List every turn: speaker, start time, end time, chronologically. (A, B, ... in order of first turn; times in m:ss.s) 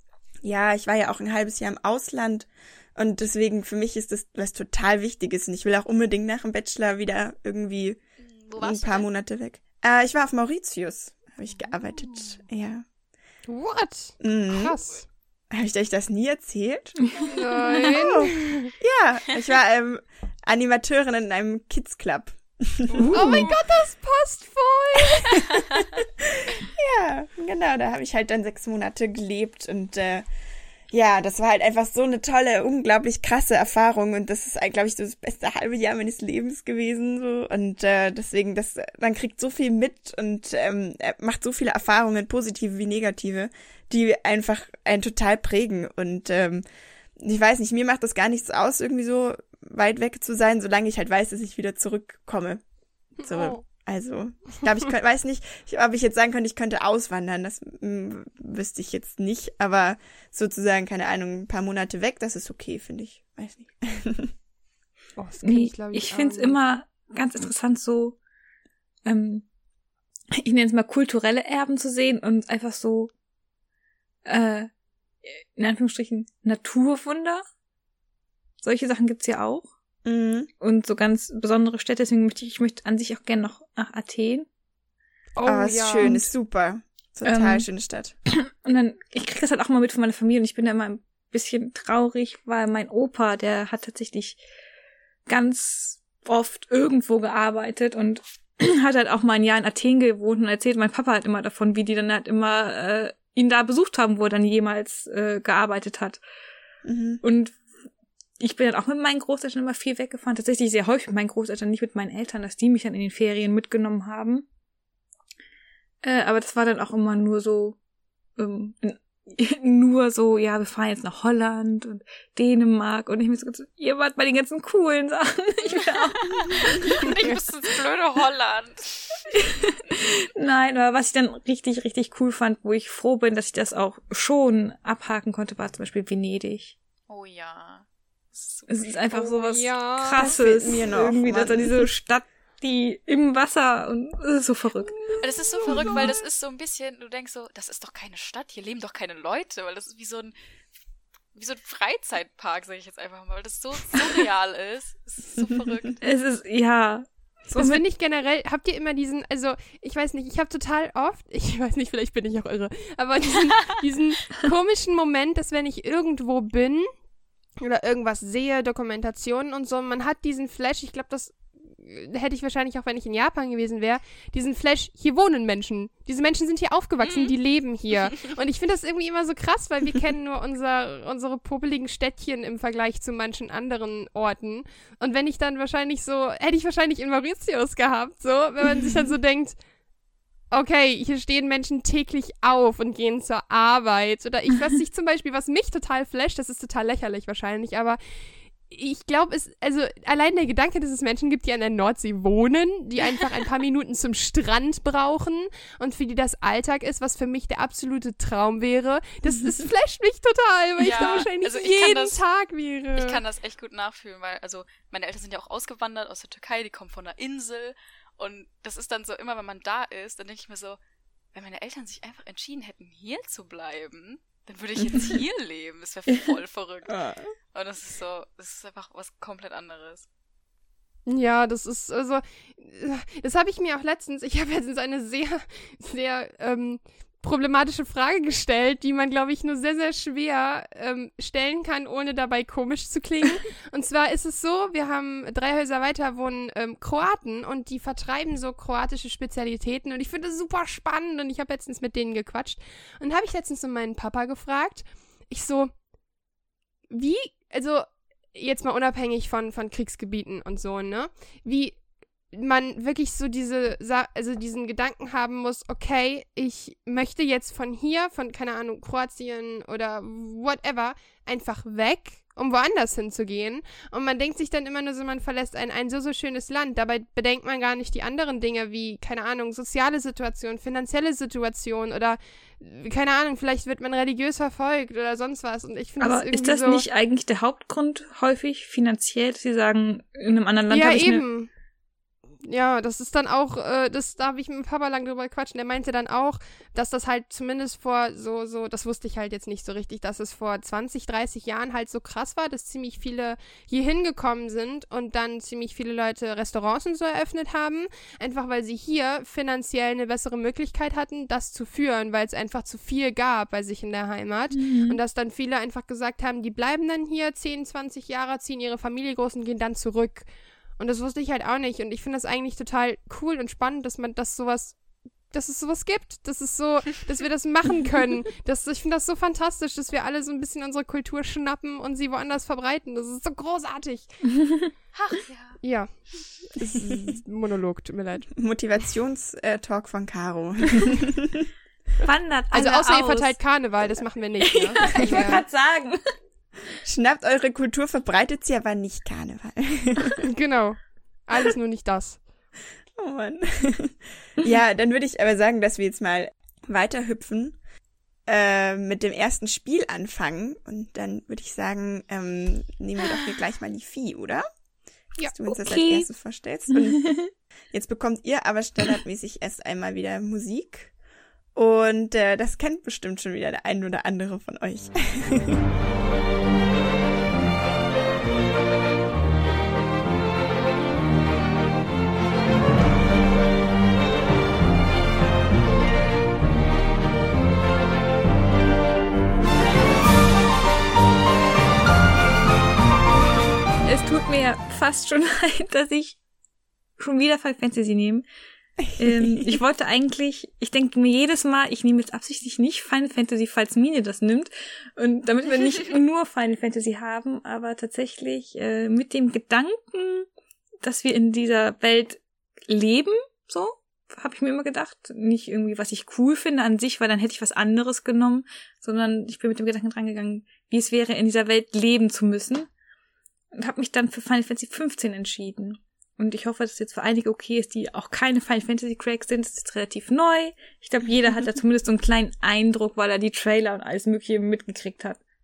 0:00.4-0:08.0 A
0:08.2-0:09.1 B
0:08.6-0:12.8 A
0:13.4-0:15.0 C
0:14.2-0:14.8 A
0:15.5-0:17.0 A
0:17.3-0:18.7 C
0:17.7-0:23.5 A
0:23.1-0:25.4 C
0:25.4-0:30.2 A
0:30.9-0:46.6 A
0:47.2-0:52.6 A
0:53.2-0:53.6 C
0:53.2-1:04.3 A
1:05.2-1:06.6 C
1:05.4-1:08.2 D
1:09.0-1:09.4 D
1:10.4-1:13.1 D
1:14.2-1:14.7 D
1:15.2-1:17.4 D
1:18.6-1:19.7 D
1:20.0-1:20.5 A
1:20.6-1:24.4 D
1:25.4-1:26.3 C
1:25.4-1:28.1 A
1:27.2-1:27.6 D
1:28.3-1:34.4 D
1:35.3-1:46.2 D
1:46.8-1:47.2 A
1:47.2-1:47.6 D
1:48.4-1:54.4 D
1:56.0-1:57.8 D
1:58.4-2:07.3 D
2:05.7-2:09.3 B
2:09.3-2:16.7 D
2:17.1-2:19.3 B
2:18.7-2:25.1 D
2:19.1-2:20.7 C
2:20.2-2:21.9 A
2:24.9-2:26.1 C
2:25.2-2:30.3 B
2:25.7-2:26.1 D
2:31.3-2:36.0 B
2:36.0-2:37.8 D
2:37.5-2:46.9 C
2:47.6-3:09.6 C
2:57.0-2:57.4 B
3:10.5-3:33.2 C
3:30.8-3:32.2 B
3:33.0-3:40.8 B
3:41.3-3:47.0 B
3:44.8-3:45.1 A
3:46.9-3:47.3 A
3:47.5-3:50.0 B
3:51.1-4:15.7 C
4:16.9-4:21.8 C
4:22.3-4:46.8 C
4:46.0-4:51.2 D
4:50.7-4:51.5 C
4:52.4-5:24.8 C
5:14.5-5:15.0 D
5:25.3-5:34.2 C
5:34.9-5:35.6 B
5:35.6-5:38.3 C
5:36.8-5:37.1 A
5:38.3-5:41.5 A
5:42.0-5:43.4 D
5:42.5-5:45.4 C
5:44.7-5:46.1 D
5:44.8-5:45.4 A
5:46.8-5:50.2 A
5:50.2-5:52.2 C
5:53.0-5:57.6 A
5:58.3-6:04.4 A
6:05.2-6:07.1 A
6:05.5-6:06.1 D
6:06.7-6:07.2 D
6:07.7-6:10.9 A
6:11.5-6:15.6 A
6:33.8-6:36.2 D
6:37.0-6:38.2 D
6:38.8-6:39.6 A
6:39.0-6:50.2 D
6:50.8-7:02.7 D
7:03.5-7:15.2 D